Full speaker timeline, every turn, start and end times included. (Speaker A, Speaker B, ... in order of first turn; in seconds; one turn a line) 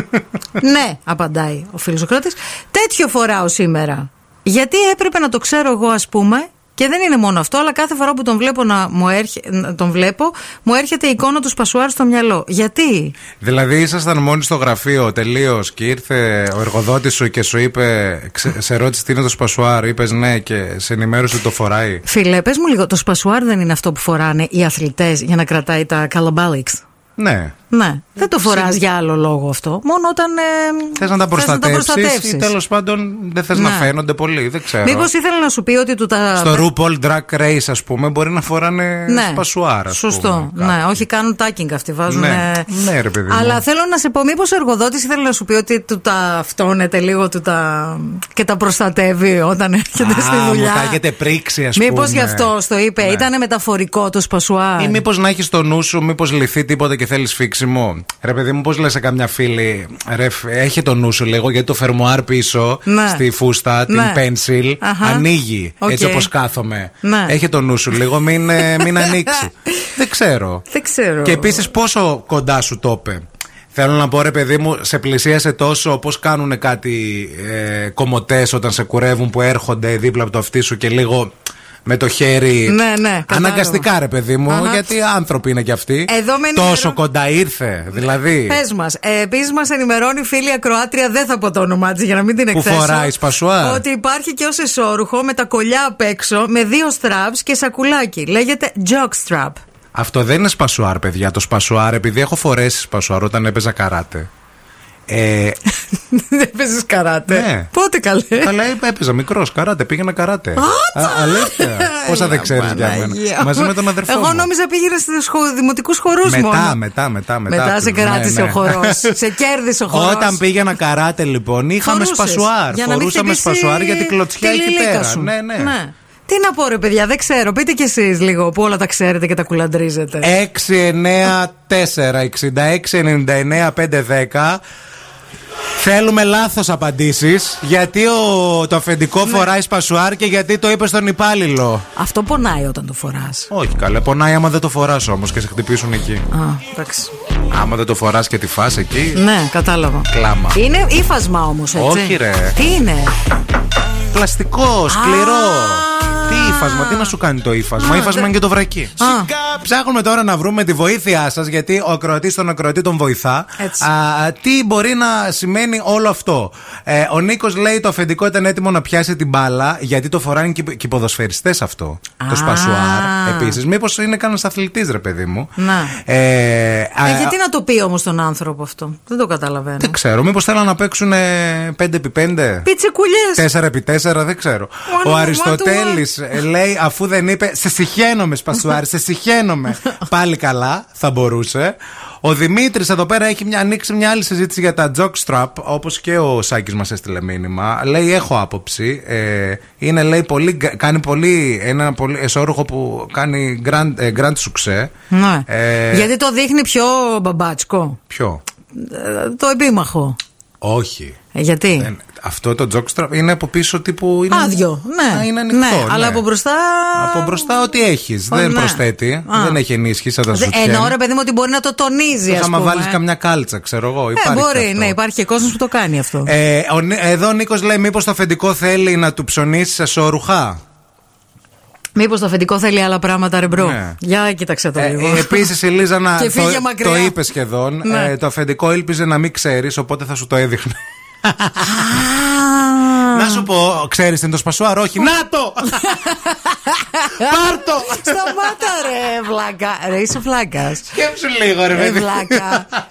Speaker A: 0.6-13.1
Speaker B: 13.4-22.0
Speaker A: 22.1-26.8
Speaker B: 27.2-27.5
Speaker A: 27.7-32.5
Speaker B: 28.3-28.8
Speaker B: 31.0-35.1
Speaker A: 33.5-33.9
Speaker A: 34.8-36.6
Speaker B: 36.3-41.0
Speaker A: 39.1-42.7
Speaker B: 42.1-43.6
Speaker A: 43.3-51.0
Speaker B: 50.0-53.3
Speaker A: 51.7-55.0
Speaker B: 54.8-70.7
Speaker A: 62.9-63.2
Speaker A: 63.9-64.2
Speaker A: 64.8-65.2
Speaker A: 65.8-66.3
Speaker A: 67.0-67.3
Speaker A: 68.5-69.8
Speaker A: 70.7-71.7
Speaker B: 71.2-81.3
Speaker B: 81.8-88.6
Speaker A: 82.7-83.8
Speaker A: 84.5-84.8
Speaker A: 86.1-87.0
Speaker A: 88.3-99.6
Speaker B: 92.5-93.8
Speaker B: 99.9-104.3
Speaker B: 105.1-105.6
Speaker A: 106.0-108.5
Speaker B: 107.3-107.7
Speaker B: 108.3-114.5
Speaker A: 110.5-116.8
Speaker B: 116.2-119.1
Speaker A: 117.5-120.4
Speaker B: 119.9-125.8
Speaker A: 121.8-130.3
Speaker B: 130.2-134.6
Speaker B: 135.8-141.8
Speaker A: 141.9-143.5
Speaker B: 143.5-146.2
Speaker A: 146.3-147.1
Speaker B: 147.5-149.2
Speaker A: 149.1-153.1
Speaker B: 150.1-150.6
Speaker B: 151.7-152.6
Speaker B: 154.1-177.3
Speaker A: 154.9-157.1
Speaker A: 157.8-158.3
Speaker A: 159.0-159.3
Speaker A: 163.6-163.8
Speaker A: 172.2-173.6
Speaker A: 175.6-175.9
Speaker A: 177.0-179.9
Speaker B: 179.8-182.7
Speaker A: 182.6-183.4
Speaker B: 183.4-204.9
Speaker A: 184.9-186.0
Speaker A: 205.1-208.0
Speaker B: 205.5-206.1
Speaker B: 208.1-208.4
Speaker A: 208.7-210.2
Speaker B: 210.6-211.2
Speaker A: 211.3-211.9
Speaker B: 211.8-216.2
Speaker A: 214.3-217.5
Speaker B: 216.9-220.9
Speaker A: 218.3-219.6
Speaker A: 220.3-223.0
Speaker B: 222.3-224.9
Speaker A: 224.1-226.3
Speaker B: 226.2-230.6
Speaker A: 231.9-235.5
Speaker B: 233.5-234.0
Speaker B: 234.8-241.9
Speaker A: 236.2-237.2
Speaker A: 237.8-238.1
Speaker A: 241.6-243.4
Speaker B: 243.1-246.1
Speaker A: 245.7-250.9
Speaker B: 247.1-248.6
Speaker B: 250.9-252.7
Speaker A: 251.7-252.7